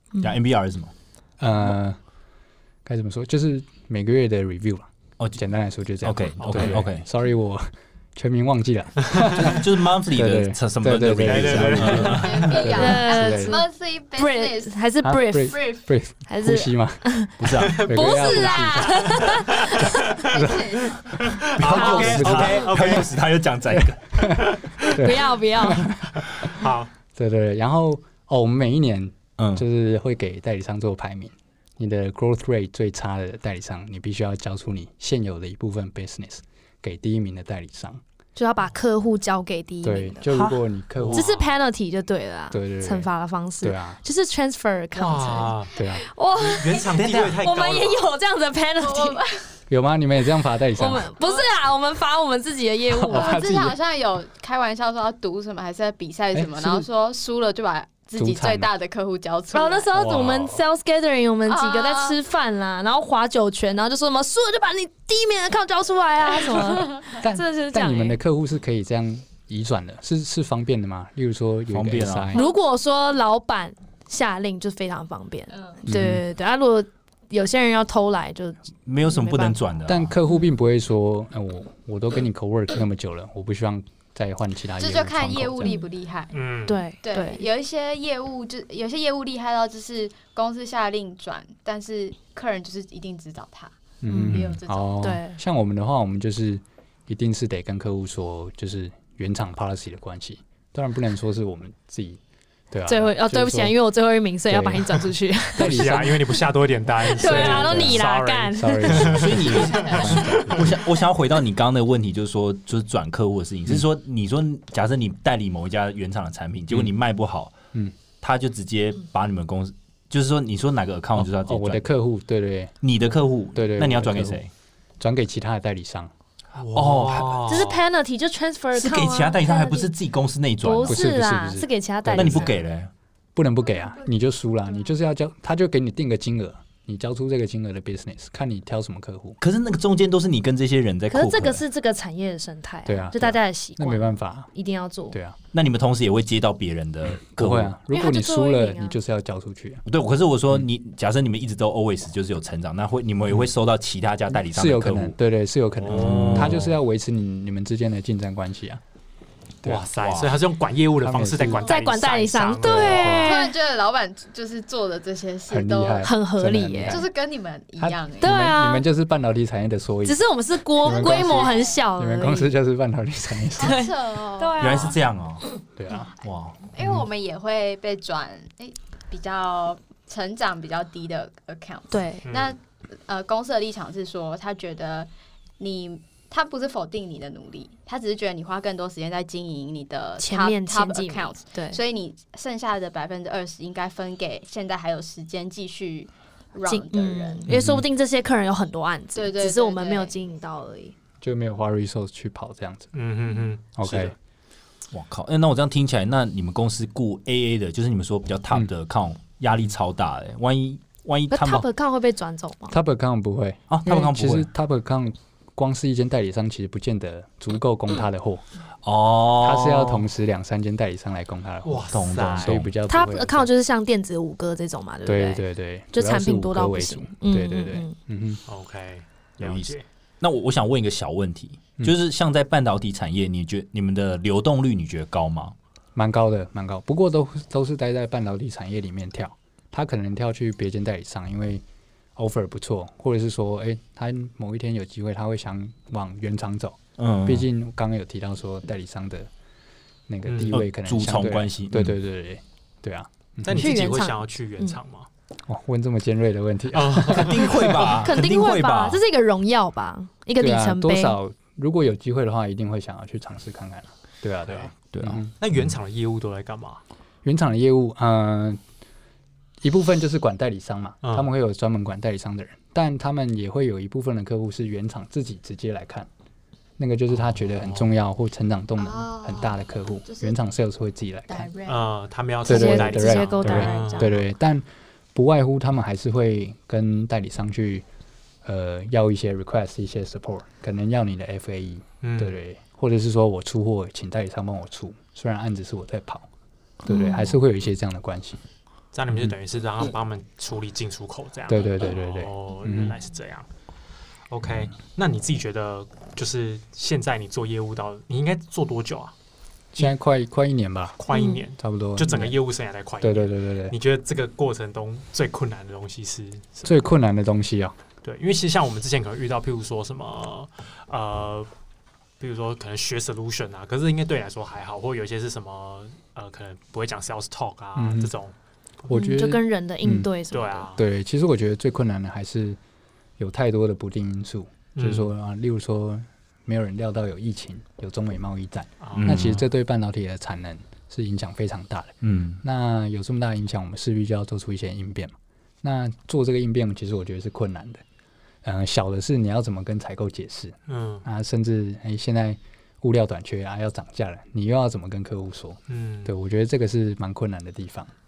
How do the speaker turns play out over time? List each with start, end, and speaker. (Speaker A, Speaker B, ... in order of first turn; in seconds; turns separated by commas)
Speaker A: 0.2-0.9, Speaker B: 1.4-2.0, Speaker B: 2.8-13.6, Speaker A: 6.0-7.0, Speaker C: 6.4-6.8, Speaker A: 9.2-12.4, Speaker C: 11.2-12.8, Speaker D: 12.0-14.8, Speaker E: 12.7-20.0, Speaker B: 15.0-19.6, Speaker D: 15.5-15.8, Speaker A: 17.4-17.9, Speaker C: 17.6-20.5, Speaker D: 18.2-18.8, Speaker D: 20.2-21.0, Speaker B: 20.2-20.7, Speaker C: 21.1-23.2, Speaker A: 21.5-24.2, Speaker E: 21.7-22.2, Speaker B: 22.1-22.6, Speaker B: 23.7-26.5, Speaker C: 24.4-24.7, Speaker E: 24.9-25.9, Speaker C: 26.1-26.9, Speaker B: 27.1-38.0, Speaker A: 29.4-29.6, Speaker E: 38.4-40.3, Speaker B: 39.8-41.4, Speaker A: 40.3-40.6, Speaker C: 41.0-41.4, Speaker E: 41.1-49.2, Speaker B: 42.5-43.1, Speaker B: 43.6-44.0, Speaker C: 44.9-45.7, Speaker B: 45.7-46.0, Speaker C: 46.4-48.0, Speaker A: 47.0-47.4, Speaker D: 48.8-49.5, Speaker B: 49.7-51.1, Speaker E: 50.8-53.5, Speaker D: 51.2-51.5, Speaker B: 52.9-53.8, Speaker D: 53.1-59.9, Speaker B: 56.3-56.9, Speaker B: 58.1-58.7, Speaker E: 59.5-68.2, Speaker B: 59.9-60.6, Speaker D: 61.5-62.2, Speaker B: 67.1-72.4, Speaker A: 71.7-72.3, Speaker E: 72.3-79.6, Speaker B: 75.8-76.2, Speaker A: 78.8-80.1, Speaker B: 79.9-85.8, Speaker D: 84.8-86.3, Speaker C: 86.3-86.8, Speaker E: 86.7-87.5, Speaker D: 87.0-95.0, Speaker B: 94.0-102.2, Speaker E: 94.1-94.4, Speaker E: 95.0-95.4, Speaker B: 102.7-103.8, Speaker E: 102.8-105.8, Speaker B: 104.5-106.4, Speaker C: 105.5-110.0, Speaker E: 107.1-109.2, Speaker B: 107.2-110.6, Speaker A: 109.0-117.5, Speaker D: 109.6-110.4, Speaker A: 118.2-121.8, Speaker B: 121.2-122.7, Speaker A: 122.8-124.5, Speaker B: 123.5-124.4, Speaker B: 125.0-126.1, Speaker C: 126.5-127.8, Speaker A: 126.7-127.8, Speaker E: 127.5-129.9, Speaker A: 128.7-131.1, Speaker E: 130.6-132.5, Speaker B: 130.8-132.6, Speaker A: 132.1-132.9, Speaker B: 133.3-139.4, Speaker A: 139.4-141.6, Speaker E: 141.1-145.2, Speaker B: 142.8-144.5, Speaker B: 145.1-145.4, Speaker A: 145.5-147.7, Speaker B: 147.3-149.8, Speaker E: 147.9-149.0, Speaker A: 149.8-155.1, Speaker B: 154.4-158.8, Speaker C: 155.8-156.7, Speaker A: 155.9-156.7, Speaker C: 159.6-163.2, Speaker A: 160.0-160.3, Speaker B: 161.0-161.7, Speaker E: 161.6-163.6, Speaker D: 162.7-166.1, Speaker B: 162.7-163.4, Speaker B: 165.5-167.1, Speaker E: 166.0-167.0, Speaker D: 166.8-168.4, Speaker B: 167.8-170.2, Speaker E: 168.2-168.8, Speaker E: 170.0-172.5, Speaker B: 170.8-173.9, Speaker D: 170.8-171.8, Speaker D: 173.6-175.0, Speaker E: 173.6-175.0, Speaker A: 174.6-175.4, Speaker B: 175.7-176.1, Speaker A: 176.2-176.7, Speaker D: 176.7-197.5, Speaker E: 181.9-182.3, Speaker C: 182.2-182.5, Speaker E: 190.2-191.8, Speaker E: 196.7-200.9, Speaker B: 197.5-197.8, Speaker D: 199.1-200.1, Speaker B: 201.2-202.9, Speaker C: 202.9-204.1, Speaker B: 203.8-204.1, Speaker A: 204.9-211.7, Speaker E: 211.3-212.8, Speaker B: 212.7-218.4, Speaker A: 213.7-214.5, Speaker A: 218.8-220.1, Speaker B: 219.4-223.5, Speaker C: 221.6-222.6, Speaker A: 221.9-222.7, Speaker E: 222.9-227.9, Speaker B: 225.0-228.4, Speaker C: 228.5-229.8, Speaker A: 229.4-235.5, Speaker B: 235.9-241.6, Speaker B: 242.2-249.3, Speaker A: 247.0-247.4, Speaker B: 250.1-253.7, Speaker C: 250.2-250.6, Speaker A: 250.5-252.0, Speaker C: 253.4-255.1, Speaker E: 253.5-254.8, Speaker B: 255.5-257.5, Speaker C: 256.7-258.1, Speaker A: 257.0-259.0, Speaker E: 257.9-261.2, Speaker B: 260.4-265.3, Speaker A: 264.9-265.6, Speaker C: 265.4-266.8, Speaker B: 267.2-268.6, Speaker B: 269.6-276.1, Speaker C: 271.0-271.3, Speaker B: 276.8-281.5, Speaker C: 277.1-277.9, Speaker D: 278.8-280.4, Speaker D: 281.3-281.9, Speaker C: 281.6-284.1, Speaker B: 282.4-287.9, Speaker E: 282.4-284.1, Speaker D: 283.5-284.1, Speaker B: 288.4-296.3, Speaker C: 292.0-292.4, Speaker B: 296.8-298.4, Speaker E: 296.9-297.3, Speaker C: 298.9-303.5, Speaker B: 301.5-302.9, Speaker C: 304.3-309.1, Speaker B: 309.7-311.0, Speaker C: 311.0-316.8, Speaker E: 311.1-311.4, Speaker B: 311.6-312.4, Speaker B: 313.0-313.7, Speaker B: 316.6-317.7, Speaker C: 318.0-321.5, Speaker C: 322.2-328.3, Speaker B: 327.8-328.1, Speaker B: 328.9-330.1, Speaker E: 328.9-330.7, Speaker C: 330.3-330.8, Speaker B: 330.7-332.6, Speaker B: 333.2-347.8, Speaker C: 334.7-335.1, Speaker C: 338.8-339.2, Speaker A: 338.9-339.4, Speaker A: 342.0-342.4, Speaker B: 348.4-357.9, Speaker C: 350.7-351.0, Speaker C: 355.7-356.1